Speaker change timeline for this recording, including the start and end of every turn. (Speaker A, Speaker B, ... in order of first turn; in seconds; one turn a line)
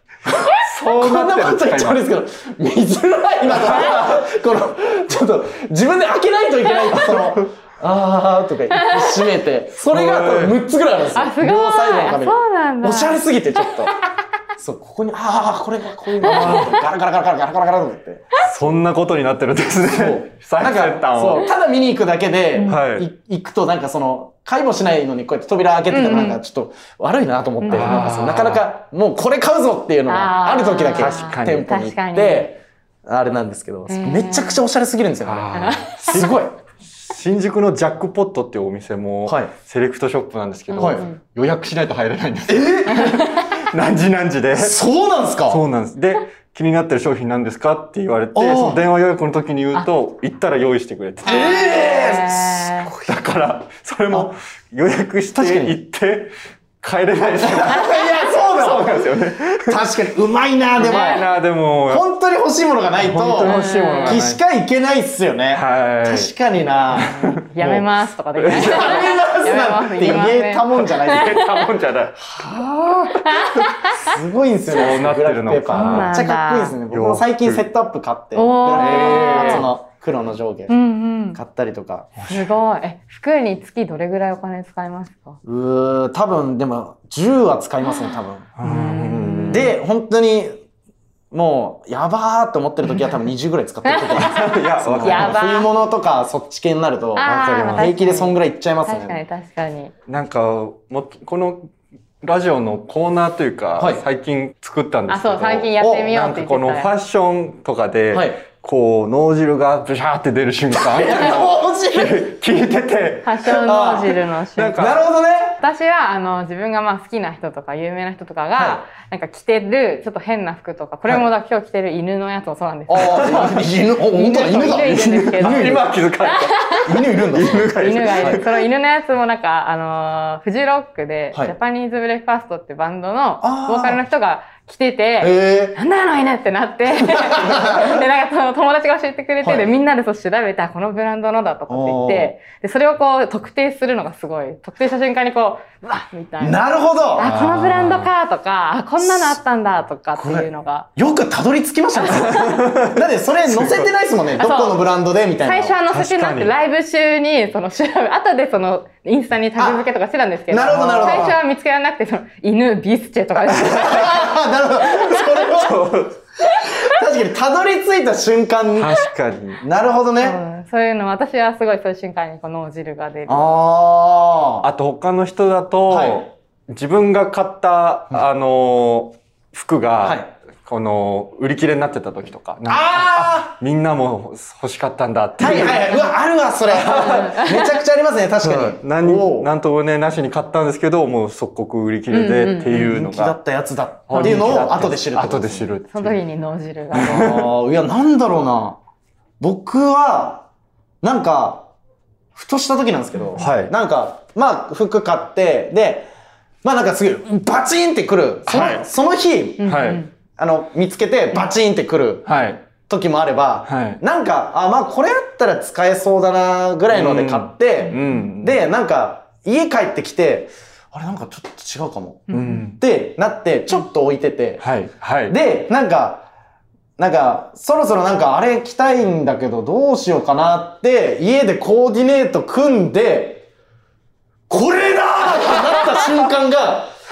Speaker A: 0.3-14.0
Speaker B: 0.6-2.0
Speaker B: 3.5-4.3
Speaker B: 7.0-7.4
Speaker C: 8.8-9.3
Speaker B: 9.8-10.6
Speaker C: 11.1-13.7
Speaker A: 14.6-18.5
Speaker C: 16.2-16.8
Speaker B: 16.2-16.8
Speaker B: 18.4-21.5
Speaker A: 19.8-36.5
Speaker B: 22.6-23.1
Speaker C: 25.9-26.4
Speaker C: 27.6-28.1
Speaker B: 27.7-28.6
Speaker C: 30.1-32.5
Speaker B: 30.9-31.7
Speaker C: 33.9-34.6
Speaker B: 35.2-44.8
Speaker C: 35.5-36.2
Speaker A: 39.3-39.5
Speaker C: 40.7-41.2
Speaker A: 40.8-41.0
Speaker A: 42.5-43.2
Speaker C: 42.9-43.5
Speaker A: 44.5-45.6
Speaker B: 45.5-51.6
Speaker A: 48.4-48.8
Speaker A: 51.2-52.7
Speaker C: 51.2-52.9
Speaker B: 52.8-59.8
Speaker A: 55.4-55.8
Speaker A: 57.4-61.3
Speaker B: 60.8-62.0
Speaker C: 60.8-61.2
Speaker A: 61.9-67.2
Speaker B: 63.0-64.4
Speaker C: 63.4-64.2
Speaker B: 65.5-66.3
Speaker B: 66.9-69.1
Speaker C: 67.2-71.2
Speaker A: 68.5-71.5
Speaker B: 70.9-73.7
Speaker C: 73.2-74.1
Speaker A: 74.0-80.8
Speaker B: 74.7-76.2
Speaker C: 75.7-76.8
Speaker B: 76.9-77.6
Speaker C: 78.3-79.7
Speaker B: 78.8-79.7
Speaker C: 80.7-81.4
Speaker A: 81.3-82.1
Speaker B: 82.2-82.5
Speaker C: 82.3-85.4
Speaker A: 85.5-88.5
Speaker C: 87.8-89.8
Speaker B: 88.6-89.8
Speaker A: 89.5-90.6
Speaker A: 91.3-99.2
Speaker C: 93.9-95.7
Speaker B: 94.1-95.4
Speaker C: 97.2-99.9
Speaker B: 97.2-97.9
Speaker B: 100.1-101.7
Speaker B: 102.2-114.0
Speaker A: 103.8-104.0
Speaker C: 105.1-106.9
Speaker A: 105.8-106.1
Speaker A: 108.1-108.4
Speaker A: 110.7-112.3
Speaker C: 113.2-114.9
Speaker A: 113.6-114.2
Speaker B: 114.5-115.0
Speaker A: 114.7-115.6
Speaker C: 115.6-127.0
Speaker A: 118.5-118.8
Speaker A: 122.9-126.0
Speaker B: 123.0-123.6
Speaker B: 124.3-128.6
Speaker A: 126.8-128.4
Speaker C: 127.8-146.6
Speaker A: 133.4-134.0
Speaker A: 135.2-135.8
Speaker A: 137.0-138.0
Speaker A: 139.4-139.7
Speaker A: 141.7-142.3
Speaker A: 146.4-147.3
Speaker C: 147.1-150.9
Speaker B: 147.2-148.1
Speaker A: 149.0-149.4
Speaker A: 150.2-155.8
Speaker C: 151.9-152.7
Speaker B: 152.4-153.9
Speaker C: 154.4-154.8
Speaker C: 155.4-165.7
Speaker B: 155.9-156.5
Speaker A: 159.6-159.8
Speaker A: 160.5-161.4
Speaker B: 160.7-161.3
Speaker A: 163.6-166.0
Speaker B: 165.1-166.1
Speaker C: 166.6-166.9
Speaker A: 166.6-169.0
Speaker B: 168.8-169.6
Speaker A: 169.6-170.4
Speaker C: 170.2-173.5
Speaker A: 173.3-174.7
Speaker B: 174.6-186.1
Speaker A: 175.9-176.2
Speaker A: 180.0-180.3
Speaker A: 182.7-183.5
Speaker A: 185.4-189.5
Speaker B: 186.7-187.2
Speaker C: 186.8-187.7
Speaker B: 188.4-193.4
Speaker C: 192.1-193.0
Speaker A: 192.7-195.7
Speaker B: 194.1-196.2
Speaker C: 194.1-194.5
Speaker C: 195.9-197.4
Speaker B: 196.9-197.5
Speaker A: 197.0-198.8
Speaker A: 199.4-200.5
Speaker A: 201.0-201.7
Speaker A: 202.3-206.1
Speaker B: 203.4-203.7
Speaker A: 206.6-224.7
Speaker B: 208.5-208.8
Speaker C: 209.6-210.1
Speaker B: 209.6-210.0
Speaker B: 212.2-212.6
Speaker B: 213.7-214.0
Speaker B: 216.9-218.6
Speaker C: 222.3-222.7
Speaker B: 222.3-222.8
Speaker B: 224.6-225.4
Speaker A: 225.3-226.2
Speaker A: 227.0-233.4
Speaker A: 234.5-236.9
Speaker B: 235.5-236.1